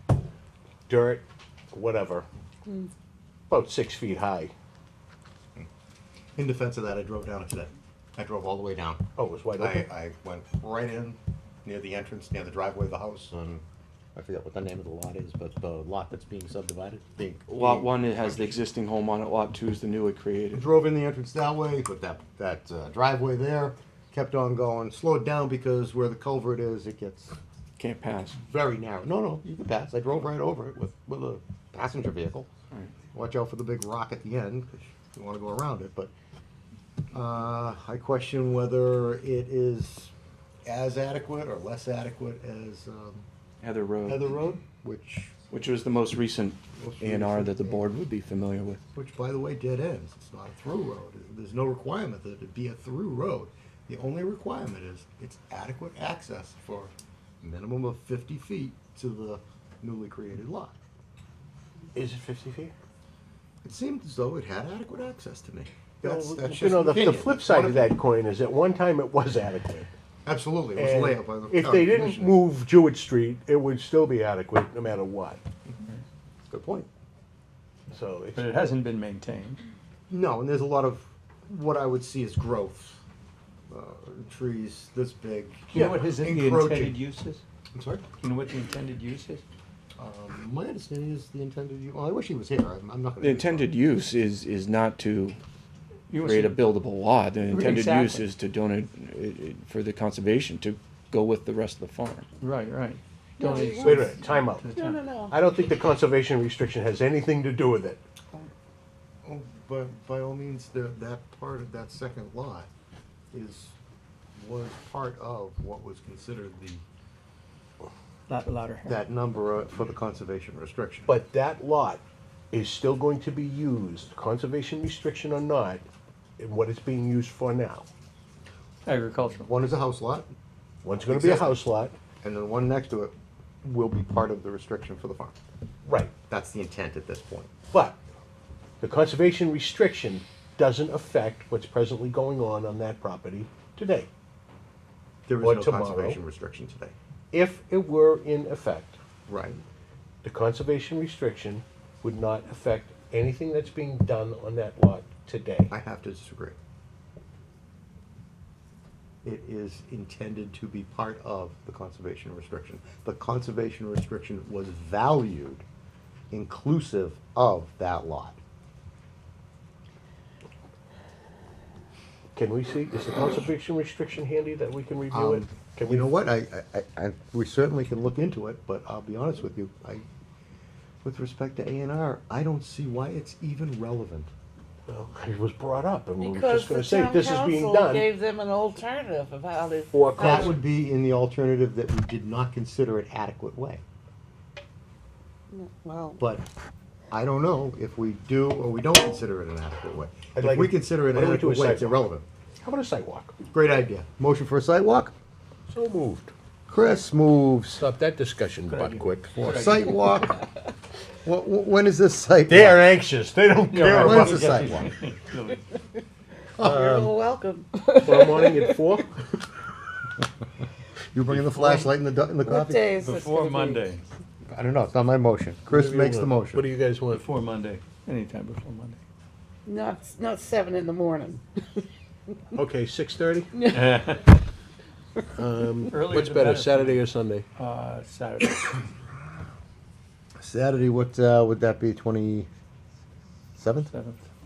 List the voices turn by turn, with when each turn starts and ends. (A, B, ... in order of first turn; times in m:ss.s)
0:00.9-0:02.2 A
0:03.5-0:04.5 A
0:06.4-0:13.6 B
0:09.2-0:09.9 A
0:14.1-0:18.6 B
0:17.5-0:20.6 C
0:20.5-0:27.4 B
0:27.8-0:28.4 C
0:28.4-0:32.5 B
0:33.1-0:36.1 B
0:37.1-0:40.1 B
0:40.6-0:43.2 B
0:43.6-0:44.2 C
0:44.0-0:45.4 B
0:45.5-0:48.8 C
0:46.8-0:47.9 B
0:48.9-1:00.8 B
1:01.9-1:02.7 A
1:03.6-1:07.9 B
1:06.0-1:09.9 A
1:10.2-1:12.4 B
1:10.8-1:15.4 A
1:16.5-1:16.9 B
1:17.9-1:18.6 A
1:18.3-1:19.6 D
1:20.1-1:23.0 B
1:23.7-1:27.0 B
1:25.7-1:27.4 D
1:27.7-1:28.0 B
1:28.2-1:29.4 D
1:30.0-1:33.7 B
1:33.2-1:35.4 C
1:36.1-1:36.7 D
1:36.1-1:42.3 C
1:37.5-1:38.2 D
1:42.4-1:45.0 D
1:43.4-1:44.1 E
1:43.5-1:44.7 A
1:44.7-1:45.3 E
1:45.3-1:48.0 A
1:49.2-1:52.7 B
1:53.3-1:53.8 B
1:54.4-1:56.8 B
1:58.3-1:59.0 D
1:58.8-2:01.1 B
2:01.1-2:05.8 A
2:06.4-2:07.9 A
2:08.8-2:09.5 D
2:09.4-2:10.3 B
2:10.8-2:11.9 A
2:11.0-2:11.6 B
2:12.2-2:15.4 B
2:15.8-2:16.1 A
2:16.3-2:17.5 B
2:17.7-2:18.0 A
2:18.8-2:24.1 A
2:25.2-2:26.9 B
2:25.4-2:26.2 A
2:27.3-2:29.0 A
2:29.3-2:29.6 B
2:30.2-2:35.7 A
2:35.7-2:36.6 B
2:39.2-2:45.6 B
2:46.3-2:48.4 B
2:52.3-2:56.1 A
2:55.1-3:00.0 B
3:01.0-3:04.3 B
3:04.9-3:08.1 A
3:06.2-3:10.5 E
3:09.9-3:10.6 A
3:10.2-3:13.8 B
3:15.5-3:16.2 E
3:16.2-3:16.4 B
3:17.1-3:22.2 B
3:20.3-3:22.1 A
3:22.6-3:23.3 A
3:23.5-3:25.1 B
3:25.7-3:26.3 A
3:26.7-3:27.8 B
3:27.7-3:29.6 A
3:28.7-3:29.9 D
3:29.3-3:30.4 B
3:31.2-3:32.9 B
3:32.5-3:34.7 A
3:33.7-3:35.6 D
3:33.8-3:34.9 B
3:36.6-3:37.2 B
3:36.6-3:38.8 E
3:38.0-3:39.2 A
3:41.1-3:42.9 B
3:41.3-3:41.8 A
3:42.4-3:43.9 E
3:43.0-3:44.1 D
3:44.5-3:46.6 B
3:45.7-3:47.2 A
3:47.1-3:49.0 D
3:49.6-3:51.8 E
3:52.5-3:53.7 A
3:53.5-3:53.8 E
3:53.7-3:54.4 D
3:55.3-3:57.4 A
3:55.9-3:57.0 D
3:57.6-3:58.8 D
4:00.4-4:02.5 B
4:03.6-4:03.9 B
4:03.8-4:04.3 D